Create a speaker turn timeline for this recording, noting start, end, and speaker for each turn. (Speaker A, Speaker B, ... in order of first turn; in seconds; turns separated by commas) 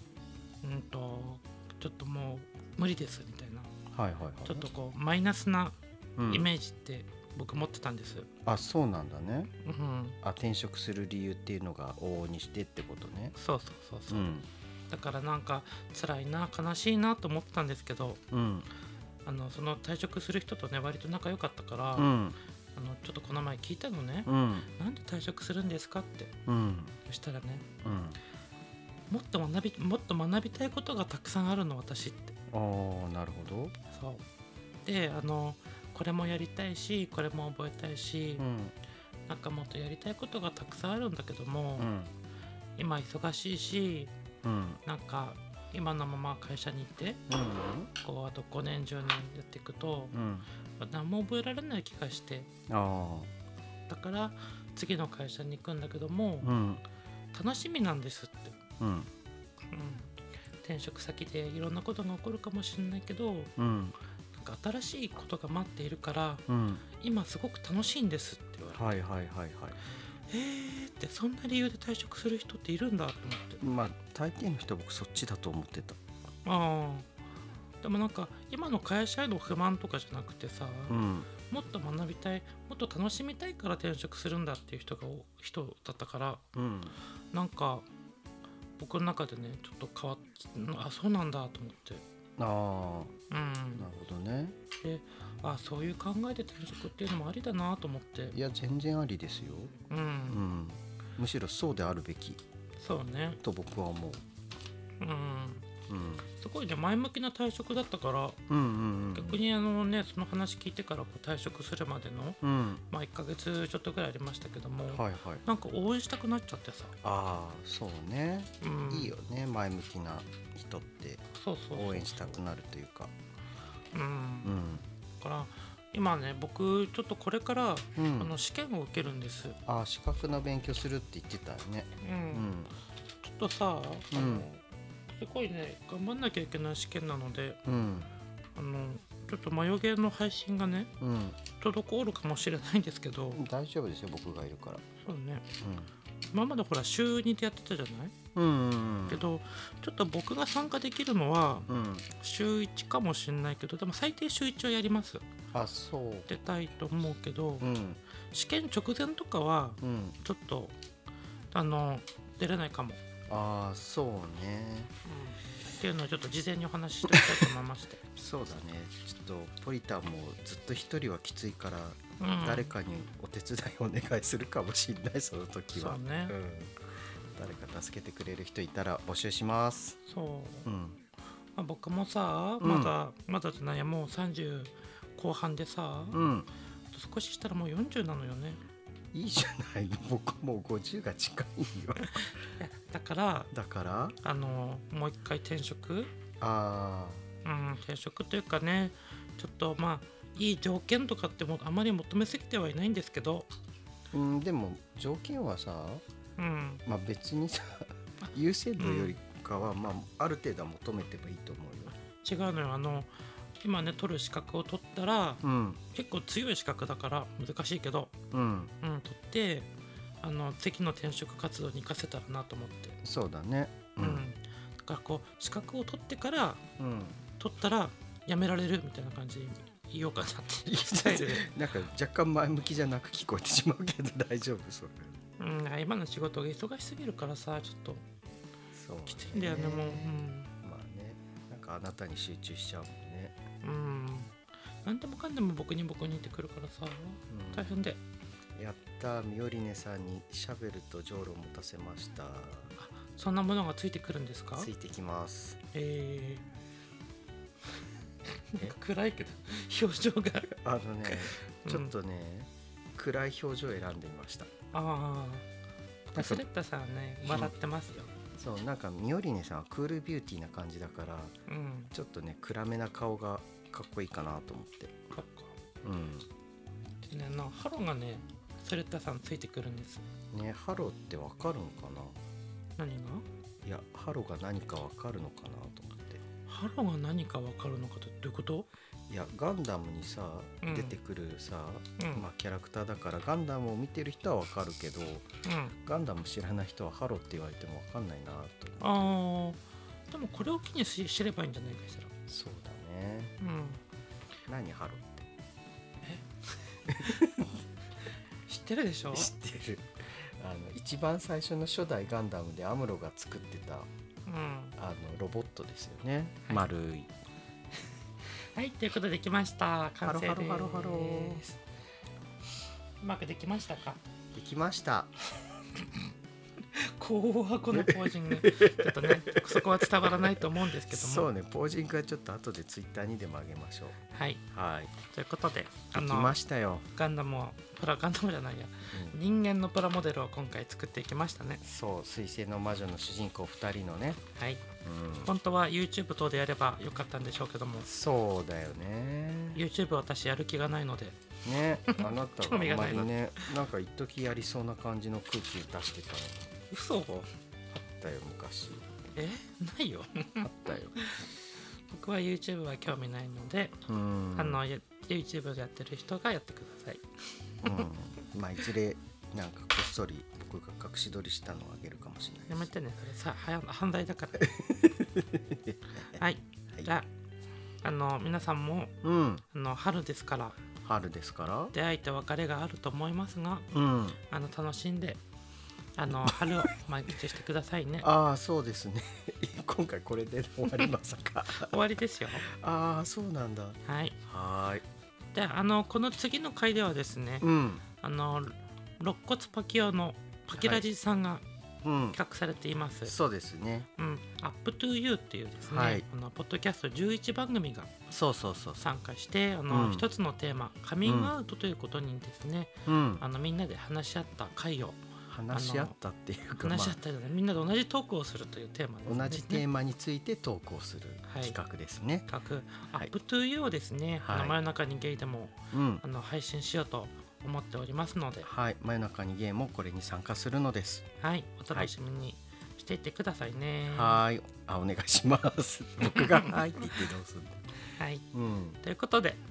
Speaker A: 0.6-3.7, Speaker B: 3.9-4.7, Speaker A: 4.5-5.8, Speaker B: 6.2-6.5, Speaker A: 6.3-8.3, Speaker B: 8.4-9.5, Speaker A: 9.6-10.2, Speaker B: 10.2-13.3, Speaker A: 13.4-14.4, Speaker B: 14.1-14.5, Speaker A: 14.9-18.2, Speaker B: 18.3-18.7, Speaker A: 19.2-22.1, Speaker B: 22.0-22.4, Speaker A: 22.8-26.3, Speaker B: 24.3-24.7, Speaker B: 26.5-27.0, Speaker A: 27.1-27.7, Speaker B: 27.8-28.2, Speaker A: 29.1-32.4, Speaker B: 32.5-33.8, Speaker A: 33.9-34.2, Speaker A: 34.9-38.5, Speaker B: 38.4-38.8, Speaker A: 39.3-41.9, Speaker B: 41.8-42.1, Speaker A: 42.8-44.1, Speaker B: 44.4-44.8, Speaker A: 44.9-47.2, Speaker B: 47.3-47.9, Speaker A: 48.0-50.1, Speaker B: 50.1-50.5, Speaker A: 50.8-52.5, Speaker B: 52.7-53.3, Speaker A: 53.9-56.5, Speaker B: 56.4-56.8, Speaker A: 57.3-58.6, Speaker B: 58.8-59.1, Speaker A: 59.7-60.1, Speaker A: 60.6-63.5, Speaker B: 63.6-64.0, Speaker A: 64.3-66.5, Speaker B: 66.5-66.8, Speaker A: 67.0-69.0, Speaker B: 68.7-69.8, Speaker A: 70.3-73.6, Speaker B: 73.6-76.0, Speaker A: 76.5-77.1, Speaker A: 77.8-86.4, Speaker B: 80.9-81.3, Speaker B: 86.5-87.0, Speaker A: 87.3-87.9, Speaker A: 88.8-92.0, Speaker B: 92.4-93.1, Speaker A: 93.3-93.9, Speaker B: 93.8-94.6, Speaker A: 94.8-98.4, Speaker B: 98.3-99.8, Speaker A: 99.9-100.4, Speaker B: 100.3-102.4, Speaker A: 102.8-103.4, Speaker B: 103.4-104.2, Speaker A: 105.0-105.7, Speaker B: 105.9-106.3, Speaker A: 106.3-108.4, Speaker B: 108.5-109.4, Speaker A: 109.1-117.0, Speaker B: 112.4-112.8, Speaker B: 114.9-115.4, Speaker B: 117.0-123.2, Speaker A: 118.6-119.1, Speaker A: 121.4-122.2, Speaker A: 123.9-124.6, Speaker B: 124.4-124.8, Speaker A: 125.2-129.6, Speaker B: 128.0-128.3, Speaker B: 129.7-132.7, Speaker A: 132.0-132.5, Speaker A: 133.2-137.6, Speaker B: 134.1-134.5, Speaker B: 137.7-138.1, Speaker A: 138.6-140.9, Speaker B: 141.0-141.4, Speaker A: 141.5-143.4, Speaker B: 143.4-144.9, Speaker A: 145.0-145.5, Speaker B: 145.6-145.9, Speaker A: 146.3-148.1, Speaker B: 148.3-149.2, Speaker A: 149.1-155.2, Speaker B: 151.7-152.1, Speaker B: 155.5-156.3, Speaker A: 156.3-157.7, Speaker B: 157.6-158.0, Speaker A: 158.3-160.8, Speaker B: 159.8-160.2, Speaker A: 161.5-163.0, Speaker B: 163.3-164.9, Speaker A: 165.1-168.0, Speaker B: 167.1-167.5, Speaker B: 168.2-176.8, Speaker A: 172.2-172.7, Speaker A: 175.7-176.3, Speaker B: 177.3-180.0, Speaker A: 180.1-180.7, Speaker B: 180.7-181.0, Speaker A: 181.6-186.2, Speaker B: 182.6-182.9, Speaker B: 186.1-186.5, Speaker A: 186.9-188.6, Speaker B: 189.1-192.3, Speaker A: 192.0-193.5, Speaker B: 193.5-194.2, Speaker A: 194.2-196.1, Speaker B: 196.4-197.3, Speaker A: 197.4-203.5, Speaker B: 204.1-206.0, Speaker A: 206.4-206.8, Speaker B: 206.9-211.9, Speaker A: 208.2-209.2, Speaker A: 212.2-213.1, Speaker A: 213.6-218.1, Speaker B: 215.4-215.8, Speaker B: 218.3-218.7, Speaker A: 218.8-219.7, Speaker A: 220.2-223.0, Speaker B: 223.0-224.3, Speaker A: 224.0-226.6, Speaker B: 226.8-227.2, Speaker A: 227.4-231.6, Speaker B: 230.7-235.2, Speaker A: 235.4-238.0, Speaker B: 238.7-243.4, Speaker A: 239.1-240.5, Speaker A: 243.6-244.3, Speaker A: 244.8-248.0, Speaker B: 247.3-247.8, Speaker B: 248.6-252.8, Speaker A: 252.8-254.7, Speaker B: 254.6-255.6, Speaker A: 255.7-256.4, Speaker A: 258.5-260.5, Speaker B: 260.5-264.5, Speaker A: 261.1-261.9, Speaker A: 264.7-265.4, Speaker B: 266.1-266.4, Speaker A: 266.1-268.1, Speaker B: 268.4-271.4, Speaker A: 271.5-271.9, Speaker B: 271.9-275.0, Speaker A: 275.1-275.6, Speaker B: 275.8-276.3, Speaker A: 277.0-280.1, Speaker B: 280.3-282.2, Speaker A: 282.8-283.2, Speaker B: 283.6-286.2, Speaker A: 286.5-288.7, Speaker B: 289.1-295.3, Speaker A: 290.6-291.0, Speaker A: 292.0-292.2, Speaker A: 295.4-295.7, Speaker B: 295.8-298.9, Speaker A: 298.8-302.1, Speaker B: 302.3-303.3, Speaker A: 303.4-303.8, Speaker B: 304.5-305.3, Speaker B: 306.9-307.6, Speaker A: 307.0-307.5, Speaker A: 308.1-309.3, Speaker B: 309.1-313.9, Speaker A: 314.3-314.8, Speaker B: 314.8-317.1, Speaker A: 318.5-321.6, Speaker B: 320.0-321.4, Speaker A: 323.0-324.0, Speaker B: 324.3-325.1, Speaker A: 326.7-331.3, Speaker B: 327.7-334.0, Speaker A: 334.1-334.4, Speaker B: 334.5-334.9, Speaker A: 335.0-336.4, Speaker B: 335.9-336.9, Speaker A: 336.9-341.6, Speaker B: 338.9-339.2, Speaker B: 341.6-344.2, Speaker A: 344.4-344.6, Speaker B: 344.8-345.3, Speaker A: 345.2-347.9, Speaker B: 347.9-349.6, Speaker A: 349.6-351.2, Speaker B: 351.4-356.5, Speaker A: 351.9-353.5, Speaker A: 356.7-357.3, Speaker B: 357.8-358.9, Speaker A: 359.1-361.3, Speaker B: 360.4-361.1, Speaker A: 361.9-363.8, Speaker B: 363.9-364.6, Speaker A: 364.4-367.9, Speaker B: 367.6-372.7, Speaker A: 372.5-374.6, Speaker B: 374.4-376.2, Speaker A: 376.2-377.1, Speaker A: 377.8-379.0, Speaker B: 379.0-379.4, Speaker A: 379.5-380.6, Speaker B: 380.8-381.7, Speaker A: 381.7-383.7, Speaker B: 383.7-384.2, Speaker A: 384.2-385.2, Speaker A: 386.0-388.1, Speaker B: 386.3-386.6, Speaker B: 388.0-391.8, Speaker A: 391.5-392.5, Speaker B: 392.4-394.9, Speaker A: 393.9-394.2, Speaker A: 395.3-397.5, Speaker B: 397.4-397.8, Speaker A: 398.0-401.4, Speaker B: 400.6-400.9, Speaker B: 401.8-402.2, Speaker A: 402.1-403.2, Speaker B: 403.1-403.9, Speaker A: 404.0-408.0, Speaker B: 405.6-406.1, Speaker B: 408.1-408.8, Speaker A: 408.8-415.0, Speaker B: 409.7-410.1, Speaker B: 411.0-411.3, Speaker B: 412.9-413.2, Speaker B: 415.3-417.0, Speaker A: 415.5-415.9, Speaker A: 416.6-419.7, Speaker B: 419.1-422.3, Speaker A: 421.3-421.6, Speaker A: 422.3-428.5, Speaker B: 424.2-424.6, Speaker B: 425.7-426.0, Speaker B: 428.4-431.1, Speaker A: 431.2-434.2, Speaker B: 433.9-437.7, Speaker A: 436.1-436.6, Speaker A: 438.0-438.2, Speaker B: 438.3-438.8, Speaker A: 438.8-439.4